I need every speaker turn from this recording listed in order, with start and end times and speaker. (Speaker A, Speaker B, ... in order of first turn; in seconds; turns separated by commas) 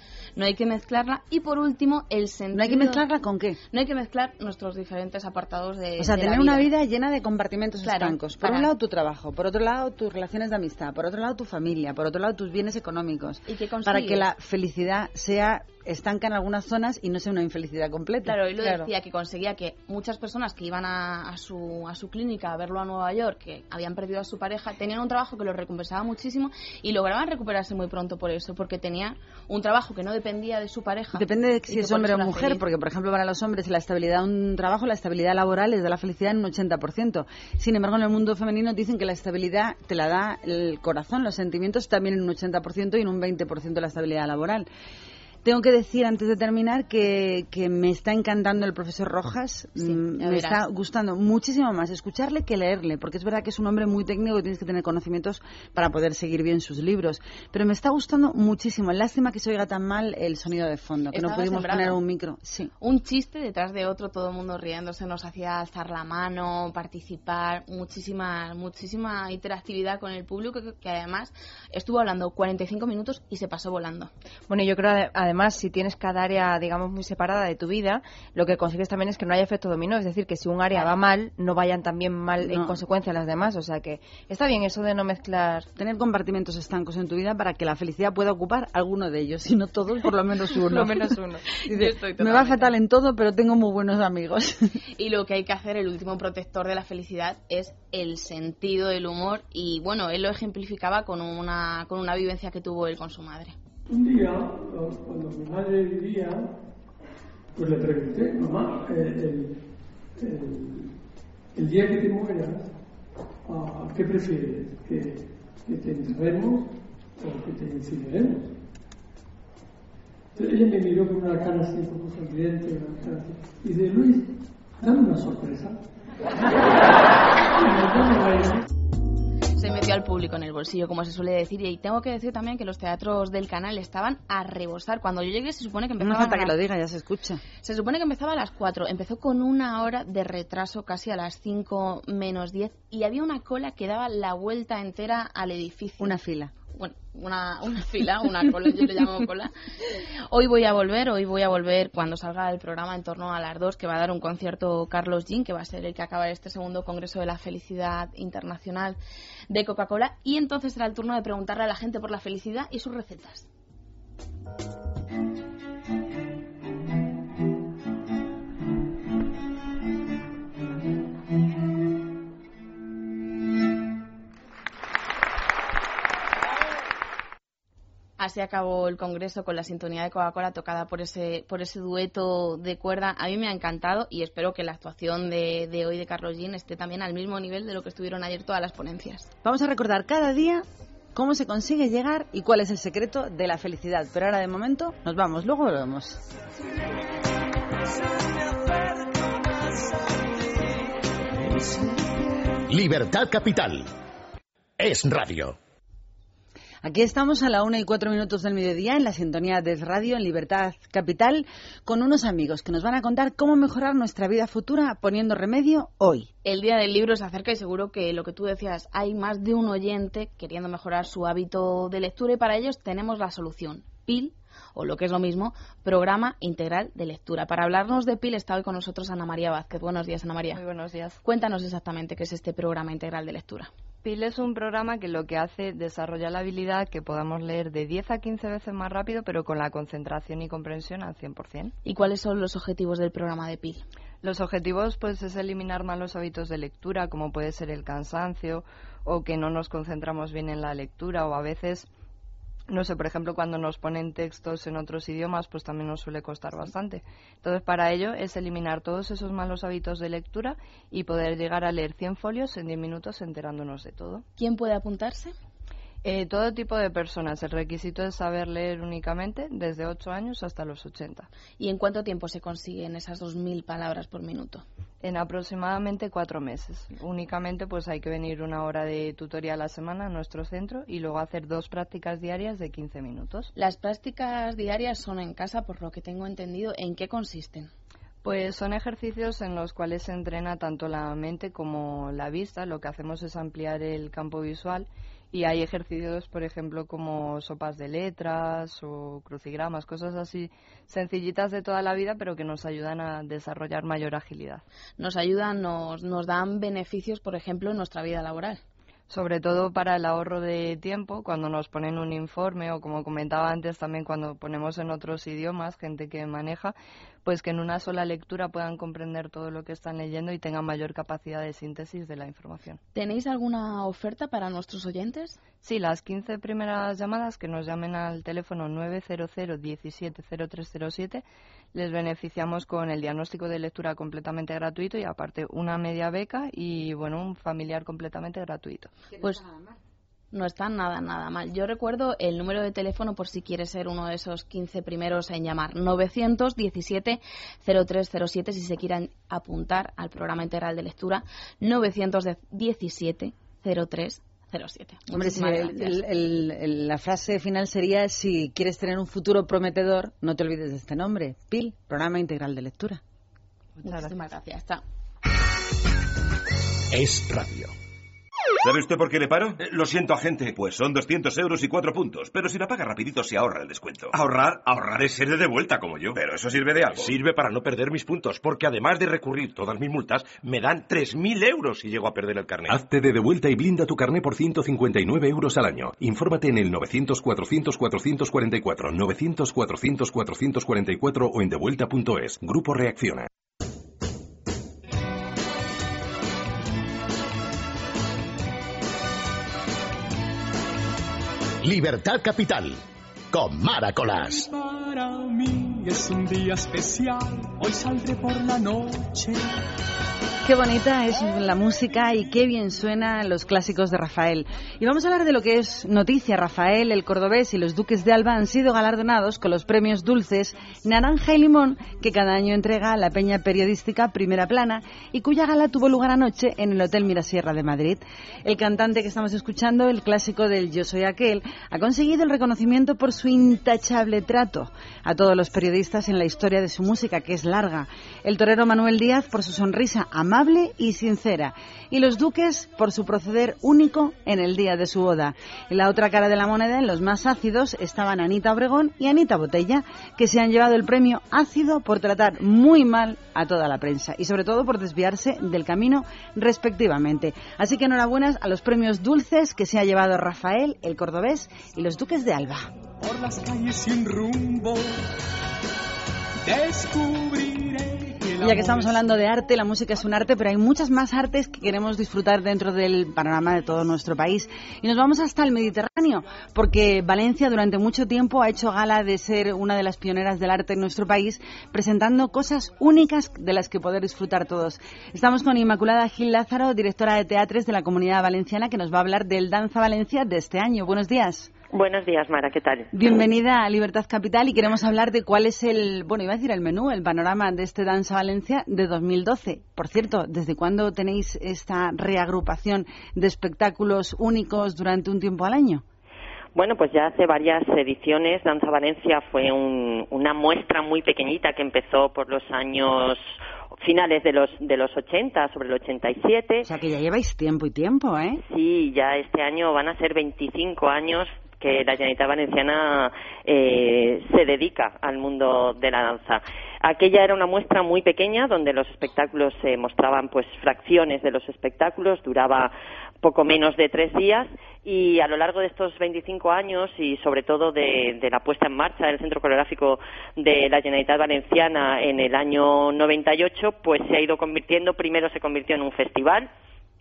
Speaker A: 0.3-3.0, Speaker B: 2.5-3.6, Speaker A: 3.7-6.7, Speaker B: 6.0-18.4, Speaker A: 7.8-8.7, Speaker A: 13.4-14.2, Speaker A: 18.2-32.6, Speaker B: 31.1-44.6, Speaker B: 45.4-62.7, Speaker A: 49.8-50.6, Speaker A: 61.1-62.0, Speaker A: 62.8-74.1, Speaker C: 74.5-85.7, Speaker B: 82.4-82.8, Speaker B: 85.8-91.1, Speaker C: 90.6-91.4, Speaker A: 91.6-92.7, Speaker B: 91.7-94.8, Speaker A: 95.0-103.5, Speaker D: 103.9-106.5, Speaker D: 107.5-109.5, Speaker D: 110.2-110.9, Speaker D: 111.5-112.7, Speaker D: 113.5-118.5, Speaker D: 120.3-125.8, Speaker D: 126.4-126.9, Speaker D: 127.5-128.6, Speaker A: 129.6-136.5, Speaker B: 136.0-137.4, Speaker A: 137.6-159.0, Speaker B: 146.0-146.5, Speaker A: 159.5-163.5, Speaker A: 178.2-189.3, Speaker B: 189.4-196.2, Speaker E: 202.7-203.9, Speaker E: 204.8-205.6, Speaker B: 206.8-216.3, Speaker A: 216.4-230.6, Speaker F: 230.5-231.2, Speaker A: 231.2-233.7, Speaker F: 234.0-241.7, Speaker A: 241.8-243.8, Speaker F: 244.2-251.9, Speaker F: 252.7-264.2, Speaker A: 264.4-265.3, Speaker F: 266.0-271.3, Speaker A: 271.6-274.6, Speaker F: 275.0-283.5, Speaker A: 283.6-287.7, Speaker F: 288.2-304.6, Speaker A: 305.0-308.6, Speaker F: 309.1-316.7, Speaker F: 317.2-322.8, Speaker A: 322.9-325.4, Speaker F: 325.6-338.9, Speaker A: 339.2-339.4, Speaker A: 340.3-356.0, Speaker B: 355.1-363.0, Speaker A: 363.8-364.8, Speaker E: 367.0-367.7, Speaker G: 368.6-382.8, Speaker H: 382.7-393.3, Speaker E: 401.6-404.5, Speaker I: 404.6-409.4, Speaker B: 410.4-462.7, Speaker I: 463.0-464.9, Speaker I: 466.4-468.8, Speaker B: 468.4-491.5, Speaker J: 491.7-492.9, Speaker B: 492.9-505.8, Speaker J: 506.5-516.7, Speaker B: 516.6-518.4, Speaker J: 518.4-546.5